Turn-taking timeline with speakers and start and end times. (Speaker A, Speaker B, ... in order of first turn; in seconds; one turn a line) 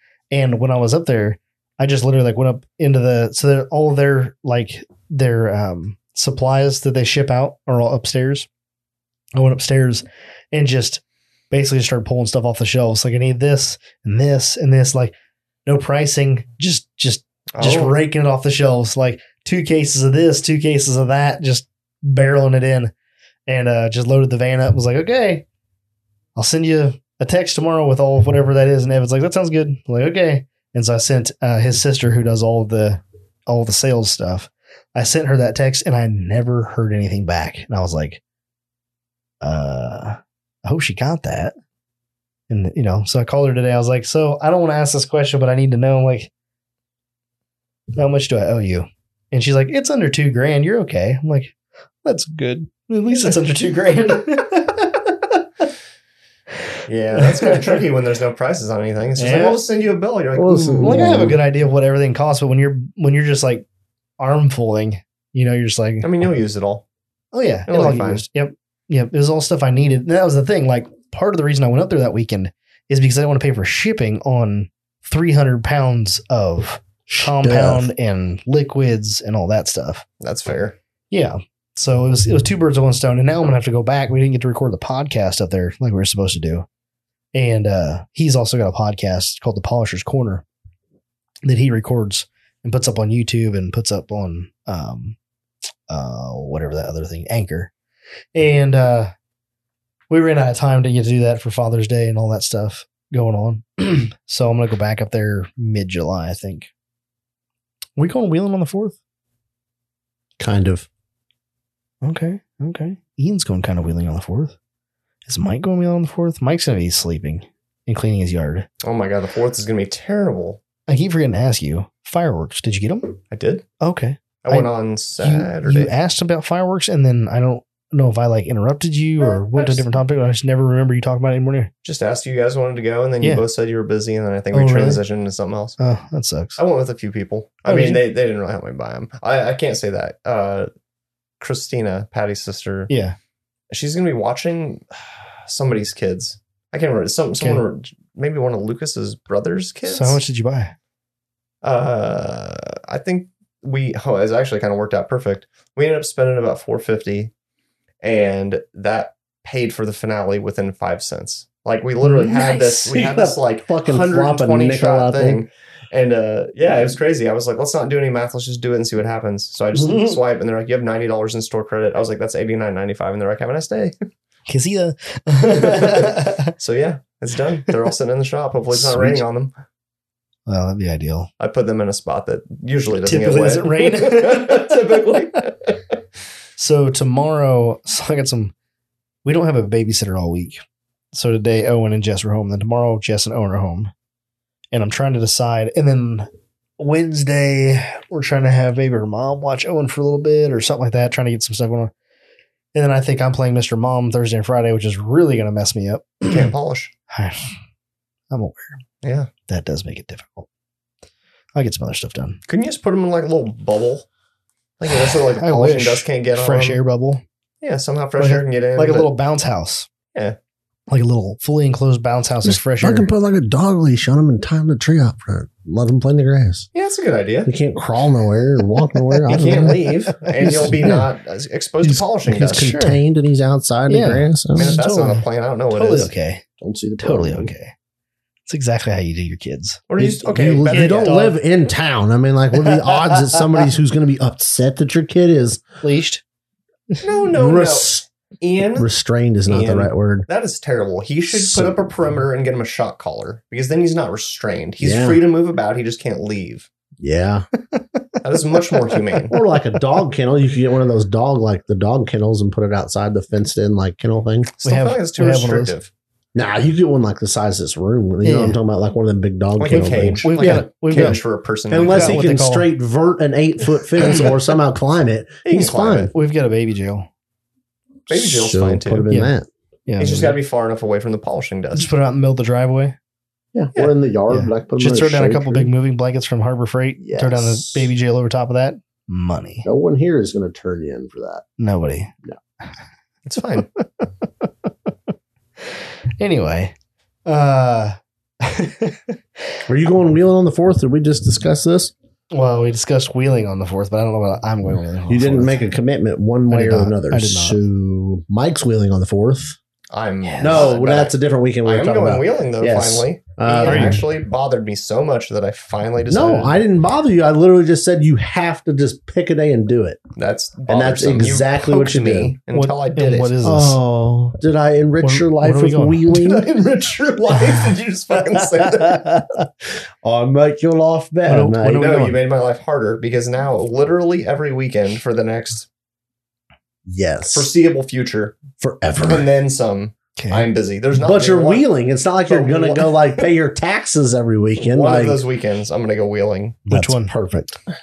Speaker A: 0.3-8.5
Speaker A: 9.3-15.1
Speaker A: 15.7-22.9
Speaker B: 17.5-17.9
Speaker A: 23.5-25.4
Speaker A: 26.4-38.2
Speaker A: 39.4-41.5
Speaker A: 42.5-46.3
Speaker A: 48.0-55.4
Speaker B: 56.9-61.3
Speaker A: 59.2-59.6
Speaker C: 60.4-61.4
Speaker A: 60.8-63.6
Speaker A: 64.2-66.1
Speaker B: 66.0-66.8
Speaker A: 67.3-80.0
Speaker B: 67.7-68.2
Speaker C: 77.1-77.9
Speaker B: 80.2-80.8
Speaker A: 81.1-86.7
Speaker A: 87.3-90.4
Speaker A: 91.4-95.2
Speaker A: 95.9-97.7
Speaker A: 98.3-99.1
Speaker A: 100.1-106.7
Speaker A: 108.0-109.0
Speaker C: 110.4-110.9
Speaker A: 112.0-114.5
Speaker A: 115.2-118.7
Speaker B: 118.8-120.6
Speaker A: 120.9-123.2
Speaker B: 123.3-123.6
Speaker A: 123.8-131.7
Speaker B: 124.4-125.9
Speaker B: 129.2-129.8
Speaker B: 131.8-135.8
Speaker A: 134.5-135.0
Speaker A: 135.8-136.6
Speaker B: 136.6-140.7
Speaker A: 137.7-138.0
Speaker B: 141.4-142.9
Speaker A: 142.9-143.2
Speaker B: 143.7-150.2
Speaker A: 147.4-147.6
Speaker A: 149.8-150.7
Speaker B: 151.6-157.3
Speaker B: 158.0-173.9
Speaker A: 162.0-162.3
Speaker C: 162.3-165.4
Speaker A: 169.8-170.2
Speaker A: 174.5-176.5
Speaker B: 175.6-179.5
Speaker A: 178.8-179.2
Speaker A: 180.5-181.3
Speaker B: 181.4-185.8
Speaker A: 183.1-185.2
Speaker A: 186.6-188.5
Speaker A: 189.2-190.6
Speaker A: 191.1-193.9
Speaker A: 194.7-196.3
Speaker A: 196.8-201.9
Speaker A: 202.7-206.5
Speaker B: 206.3-206.9
Speaker A: 207.1-207.5
Speaker A: 208.3-208.8
Speaker B: 209.0-209.3
Speaker A: 209.5-210.5
Speaker A: 211.6-212.4
Speaker B: 212.5-214.1
Speaker B: 214.8-216.8
Speaker A: 214.9-217.2
Speaker B: 217.6-219.1
Speaker A: 218.2-219.9
Speaker A: 220.9-223.1
Speaker C: 222.4-226.7
Speaker B: 226.7-227.5
Speaker C: 227.4-231.1
Speaker A: 228.9-230.9
Speaker B: 229.3-232.7
Speaker C: 231.8-234.8
Speaker A: 232.4-233.0
Speaker A: 233.9-236.4
Speaker B: 234.5-236.1
Speaker C: 236.6-237.5
Speaker A: 237.0-237.7
Speaker A: 238.5-239.8
Speaker B: 239.9-241.2
Speaker C: 240.0-245.6
Speaker A: 240.7-241.4
Speaker A: 242.7-243.3
Speaker A: 245.8-246.2
Speaker B: 247.0-248.9
Speaker C: 247.3-248.0
Speaker C: 248.8-250.3
Speaker B: 249.5-256.7
Speaker C: 251.3-251.9
Speaker C: 254.8-255.2
Speaker C: 257.0-257.4
Speaker A: 257.7-258.1
Speaker B: 258.2-259.3
Speaker C: 259.3-264.5
Speaker B: 264.6-265.9
Speaker A: 264.6-265.7
Speaker C: 266.3-276.1
Speaker A: 268.2-268.6
Speaker B: 269.6-272.2
Speaker A: 269.7-271.2
Speaker A: 271.8-272.7
Speaker B: 274.0-274.3
Speaker B: 275.4-276.1
Speaker A: 276.1-277.1
Speaker B: 278.1-279.1
Speaker C: 278.1-279.5
Speaker A: 279.1-279.3
Speaker A: 279.9-280.3
Speaker B: 280.0-281.9
Speaker A: 281.8-282.9
Speaker C: 283.5-285.7
Speaker A: 284.3-289.6
Speaker C: 287.0-287.9
Speaker C: 289.6-291.4
Speaker A: 291.6-292.1
Speaker B: 293.2-293.7
Speaker A: 293.6-294.3
Speaker A: 295.7-296.7
Speaker A: 297.2-299.1
Speaker C: 299.7-301.9
Speaker A: 302.3-305.6
Speaker C: 305.1-309.6
Speaker A: 306.5-307.6
Speaker B: 309.9-316.6
Speaker A: 310.2-310.7
Speaker C: 310.4-314.0
Speaker A: 313.6-314.0
Speaker C: 316.1-320.0
Speaker B: 320.1-323.4
Speaker C: 320.7-322.4
Speaker A: 322.5-323.8
Speaker C: 323.4-326.4
Speaker A: 325.0-326.0
Speaker B: 326.1-329.1
Speaker C: 328.6-329.4
Speaker C: 330.0-331.9
Speaker A: 331.2-332.2
Speaker B: 331.6-335.7
Speaker C: 336.9-337.5
Speaker B: 337.3-338.4
Speaker C: 338.6-339.3
Speaker B: 339.0-341.7
Speaker A: 340.2-340.5
Speaker C: 340.9-345.2
Speaker B: 342.3-343.3
Speaker B: 344.6-346.6
Speaker A: 346.7-347.1
Speaker C: 346.7-347.6